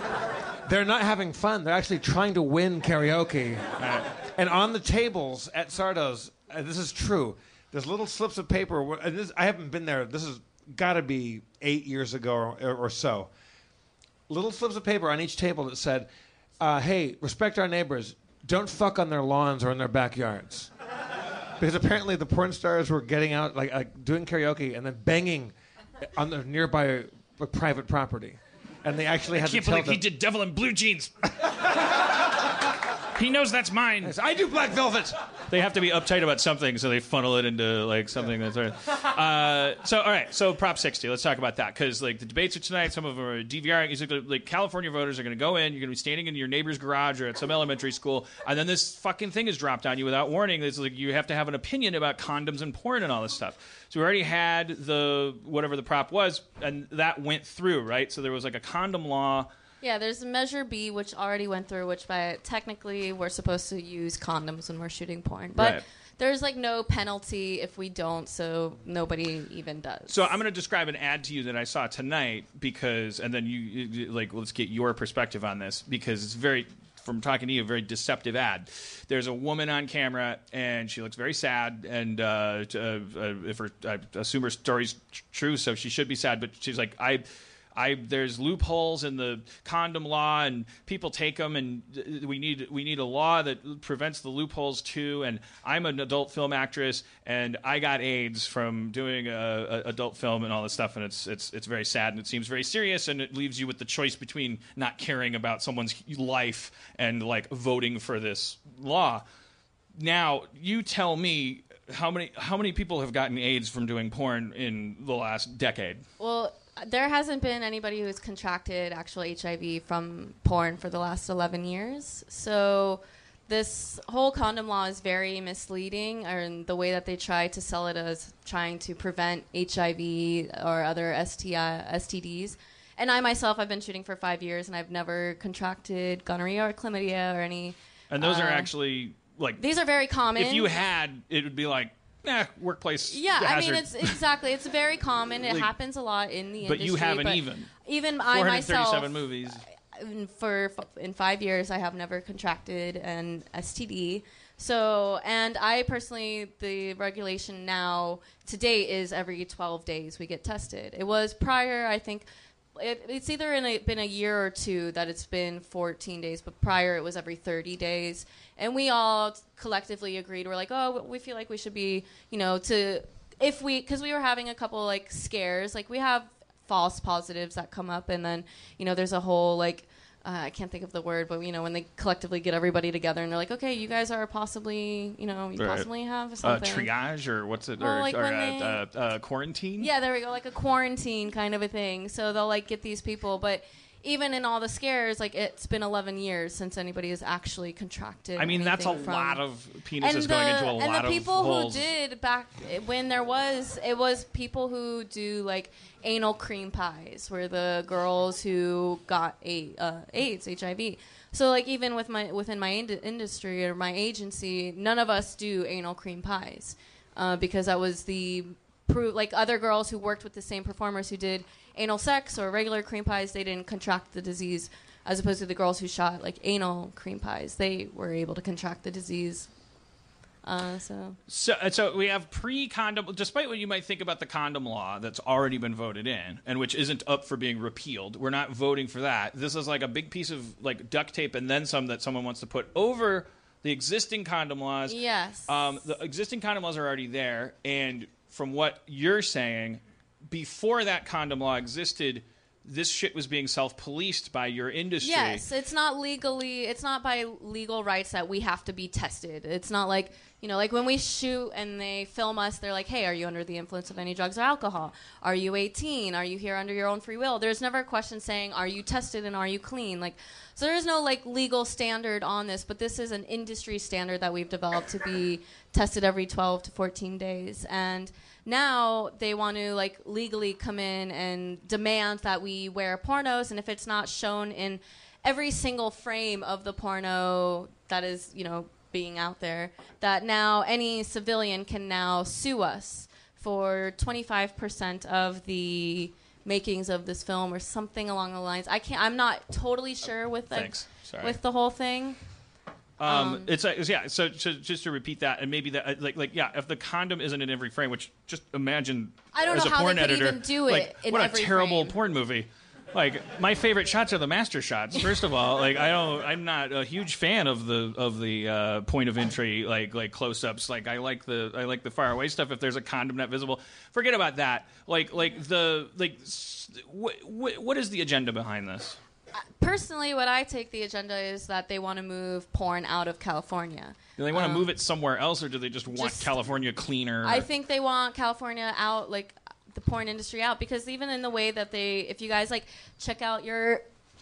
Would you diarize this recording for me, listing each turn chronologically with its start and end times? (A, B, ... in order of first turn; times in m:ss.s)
0:00.6-0:03.7 A
0:03.8-0:04.1 B
0:04.3-0:13.3 A
0:14.3-0:20.7 A
0:21.6-0:25.5 A
0:26.1-0:30.0 A
0:29.3-0:31.3 B
0:33.2-0:34.2 B
0:34.0-0:35.2 A
0:35.5-0:59.5 B
0:59.8-1:10.3 C
1:05.6-1:05.8 B
1:10.1-1:49.2 B
1:50.0-1:56.0 B
1:56.2-2:18.7 C
2:18.1-2:19.6 B
2:19.6-2:20.7 C
2:20.3-2:24.2 B
2:23.1-2:42.2 C
2:26.6-2:27.7 B
2:28.3-2:29.6 B
2:42.8-3:06.9 C
3:05.6-3:05.9 B
3:06.4-3:09.9 B
3:07.8-3:08.8 C
3:09.8-3:19.4 C
3:18.4-3:21.9 B
3:20.0-3:49.5 C
3:50.4-3:51.2 C
3:51.3-4:15.4 B
4:04.9-4:05.8 C
4:15.0-5:02.2 C
5:00.5-5:01.4 B
5:03.0-5:29.0 B
5:03.0-5:03.5 C
5:09.3-5:11.9 C
5:29.4-5:34.7 C
5:34.2-5:37.5 B
5:35.9-5:36.3 C
5:37.2-5:43.8 C